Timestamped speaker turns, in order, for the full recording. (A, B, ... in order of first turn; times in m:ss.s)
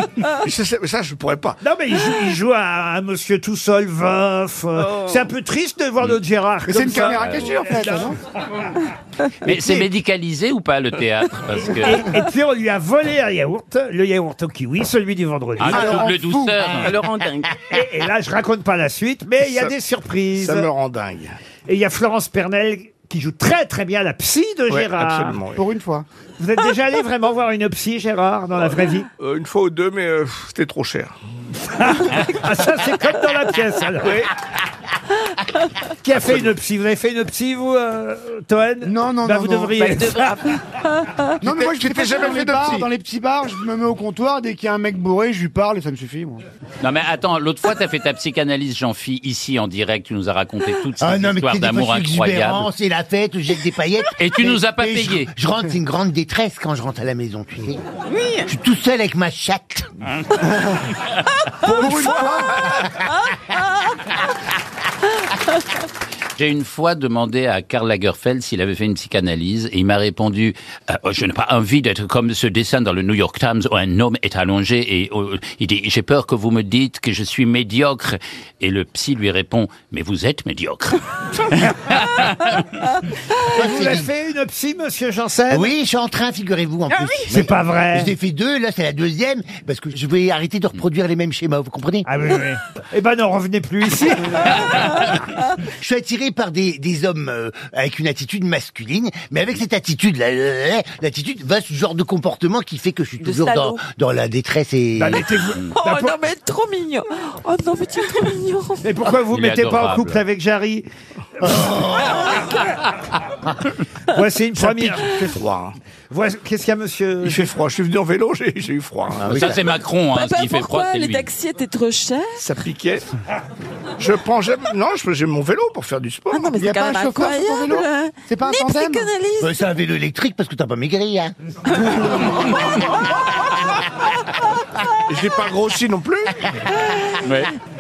0:00.3-0:01.6 A
0:01.6-0:08.1 B
0:06.7-0:08.2 C
0:06.8-0:07.3 A
0:09.4-0:12.1 D
0:11.7-0:16.1 B
0:15.6-0:17.4 D
0:15.7-0:16.8 C
0:16.6-0:17.5 E
0:17.6-0:20.7 B
0:19.4-0:19.7 A
0:20.4-0:21.4 A
0:21.7-0:25.4 B
0:24.7-0:25.6 A
0:25.6-0:26.1 C
0:26.4-0:29.1 B
0:28.6-0:31.2 A
0:31.7-0:34.2 B
0:34.0-0:34.3 A
0:36.0-0:40.5 B
0:36.1-0:36.5 A
0:38.8-0:39.8 C
0:39.8-0:41.2 E
0:41.4-0:46.4 C
0:41.4-0:42.9 A
0:46.8-0:52.7 D
0:51.0-0:57.8 F
0:54.2-0:55.3 D
0:58.4-0:59.9 F
1:01.6-1:02.6 C
1:06.4-1:22.6 D
1:23.5-1:24.1 F
1:23.5-1:25.7 B
1:25.5-1:32.1 F
1:27.3-1:28.1 B
1:32.1-1:34.8 B
1:35.7-1:45.3 F
1:43.2-1:43.8 E
1:45.0-1:46.3 B
1:45.7-1:48.9 E
1:48.8-1:50.9 B
1:49.3-1:50.2 D
1:51.4-1:52.3 B
1:51.4-1:52.4 F
1:54.1-1:55.1 B
1:54.6-1:55.8 A
1:56.1-1:57.5 B
1:57.2-1:59.4 A
1:59.2-1:59.6 F
1:59.3-2:01.3 D
2:00.1-2:02.5 E
2:02.4-2:03.1 A
2:04.0-2:06.5 A
2:06.3-2:09.5 E
2:06.3-2:09.1 C
2:09.4-2:11.3 F
2:15.1-2:16.6 A
2:17.2-2:17.5 D